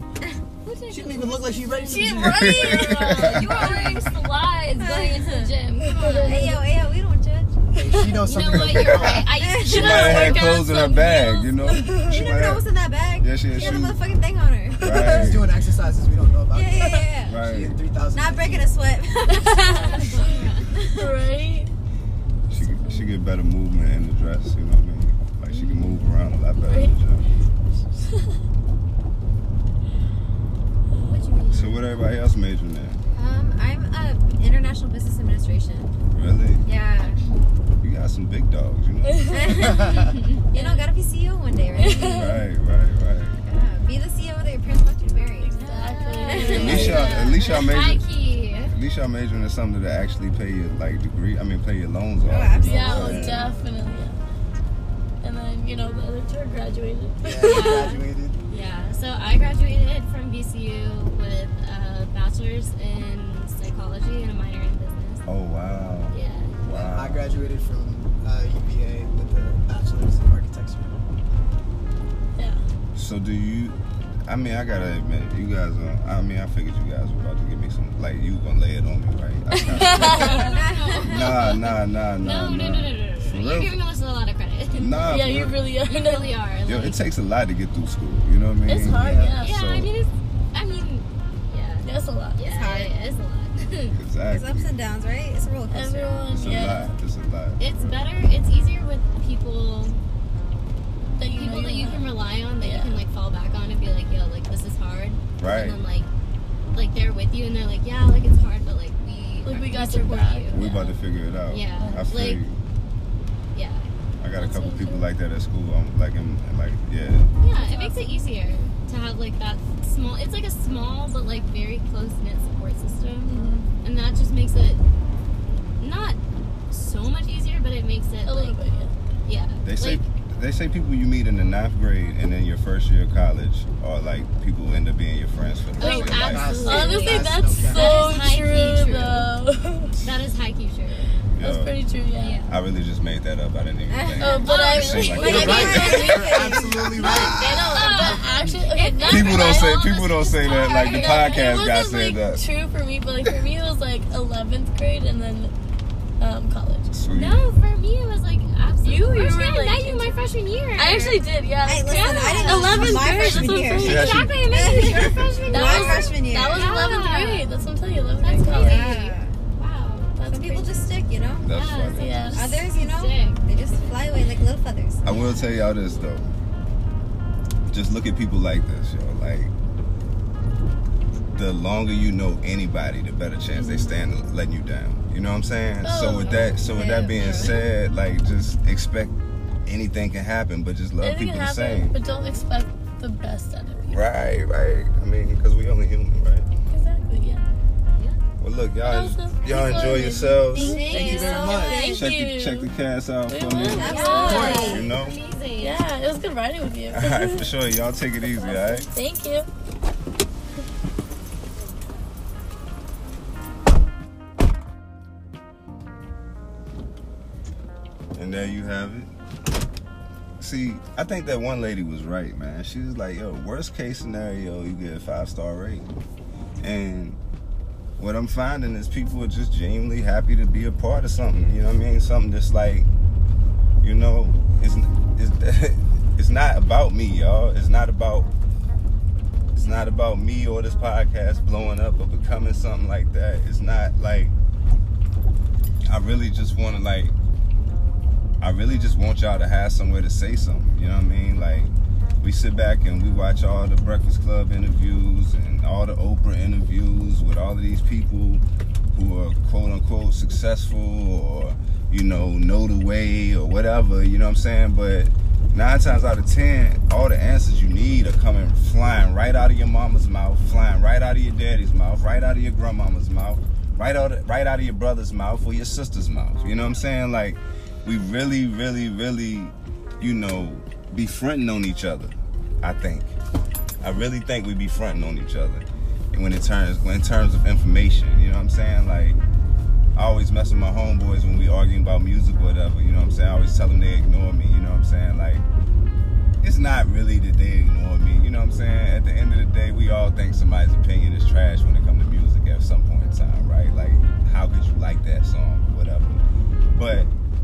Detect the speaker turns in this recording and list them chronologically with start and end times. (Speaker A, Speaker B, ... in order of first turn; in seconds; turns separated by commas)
Speaker A: 0.6-6.5, Speaker B: 0.9-2.8, Speaker C: 2.2-4.0, Speaker D: 2.7-3.2, Speaker E: 3.4-4.0, Speaker E: 4.8-5.5, Speaker D: 5.8-6.6, Speaker E: 6.2-7.5, Speaker B: 7.8-9.2, Speaker D: 7.9-8.2, Speaker A: 8.2-11.0, Speaker C: 8.5-12.7, Speaker E: 9.0-10.6, Speaker D: 9.9-12.5, Speaker E: 12.0-15.4, Speaker C: 13.2-14.0, Speaker D: 13.6-13.9, Speaker C: 14.8-15.5, Speaker D: 14.8-15.2, Speaker B: 15.1-18.8, Speaker E: 16.5-17.4, Speaker C: 17.3-17.8, Speaker E: 18.1-21.2, Speaker D: 19.3-21.7, Speaker A: 19.9-20.7, Speaker C: 22.5-27.2, Speaker D: 22.6-23.2, Speaker D: 25.5-26.0, Speaker D: 26.6-27.0, Speaker D: 27.9-28.4, Speaker D: 30.9-31.4, Speaker A: 31.1-31.8, Speaker C: 31.5-33.0, Speaker E: 33.1-35.9, Speaker C: 36.1-36.6, Speaker E: 36.6-37.2, Speaker C: 37.8-39.6, Speaker D: 39.0-39.8, Speaker E: 39.3-42.4, Speaker B: 39.8-40.1, Speaker A: 40.0-40.9, Speaker D: 41.8-42.4, Speaker C: 42.0-43.4, Speaker E: 43.4-47.1, Speaker D: 45.4-47.2, Speaker A: 45.6-48.7, Speaker C: 46.5-48.1, Speaker C: 48.7-53.5, Speaker E: 52.2-53.6, Speaker D: 52.6-54.2, Speaker D: 55.2-57.9, Speaker B: 57.2-58.4, Speaker A: 57.5-65.2, Speaker C: 65.3-67.3, Speaker A: 66.1-66.6, Speaker B: 66.6-71.0, Speaker D: 72.4-72.6, Speaker C: 73.0-80.5, Speaker D: 79.5-80.6, Speaker A: 80.2-85.2, Speaker E: 80.2-81.3, Speaker C: 81.0-83.8, Speaker C: 84.7-85.6, Speaker D: 84.8-86.5, Speaker A: 85.9-87.0, Speaker C: 86.7-89.9, Speaker D: 88.7-89.6, Speaker B: 88.9-89.4, Speaker A: 89.4-94.0, Speaker D: 91.8-92.4, Speaker E: 92.4-93.0, Speaker C: 93.9-94.7, Speaker E: 94.3-96.3, Speaker D: 95.7-96.9, Speaker C: 96.3-98.0, Speaker A: 97.6-100.0, Speaker D: 101.2-103.0, Speaker A: 101.3-106.1, Speaker C: 105.4-105.8, Speaker A: 106.7-110.9, Speaker D: 109.5-110.7, Speaker C: 110.5-112.6, Speaker A: 111.5-112.4, Speaker D: 111.8-112.1, Speaker A: 113.5-113.9, Speaker C: 114.2-117.3, Speaker D: 114.3-115.1, Speaker A: 117.4-124.8, Speaker D: 117.5-118.3, Speaker D: 123.2-123.7, Speaker A: 125.8-126.2, Speaker A: 126.7-128.6, Speaker D: 128.2-128.9, Speaker A: 129.3-130.0, Speaker C: 129.6-136.6, Speaker A: 135.8-139.3, Speaker D: 135.8-140.0, Speaker B: 136.2-138.0, Speaker A: 140.0-141.2, Speaker C: 141.3-141.7, Speaker D: 141.4-142.4, Speaker A: 142.2-142.5, Speaker C: 142.5-146.2, Speaker E: 143.9-147.1, Speaker D: 144.2-149.9, Speaker A: 144.4-145.9, Speaker B: 145.1-147.5, Speaker C: 147.1-148.1, Speaker A: 147.7-151.7, Speaker C: 149.0-152.4, Speaker D: 150.5-155.5, Speaker D: 156.2-157.0, Speaker C: 156.9-157.5, Speaker A: 157.1-161.2, Speaker D: 158.8-164.4, Speaker E: 161.7-166.8, Speaker A: 161.8-163.2, Speaker C: 162.8-165.4, Speaker A: 164.0-167.5, Speaker D: 165.5-169.1, Speaker A: 168.2-170.2, Speaker E: 168.4-169.3, Speaker D: 170.2-170.9, Speaker E: 170.2-171.5, Speaker C: 171.4-172.4, Speaker A: 171.5-174.1, Speaker D: 172.0-172.7, Speaker E: 172.3-175.3, Speaker C: 175.1-176.3, Speaker C: 177.7-179.5, Speaker C: 181.3-189.1, Speaker D: 185.8-187.5, Speaker E: 186.6-187.6, Speaker C: 189.7-192.0, Speaker D: 191.0-194.0, Speaker C: 193.9-196.5, Speaker D: 196.7-197.4, Speaker C: 198.4-200.8, Speaker D: 198.8-202.7, Speaker E: 200.6-202.1, Speaker A: 200.6-202.0, Speaker B: 200.9-201.9, Speaker C: 201.9-204.0, Speaker D: 203.3-204.8, Speaker E: 203.7-204.9, Speaker A: 203.8-205.8, Speaker B: 204.2-204.7, Speaker C: 204.5-205.2, Speaker D: 205.6-207.6, Speaker C: 206.9-208.9, Speaker D: 208.2-209.5, Speaker C: 218.1-219.1, Speaker C: 220.4-225.9, Speaker C: 226.6-227.2, Speaker C: 228.0-232.9, Speaker C: 233.8-238.3, Speaker C: 239.5-244.3, Speaker C: 245.9-247.2, Speaker C: 248.4-283.2, Speaker C: 283.8-289.2, Speaker C: 289.9-295.4, Speaker C: 296.4-307.1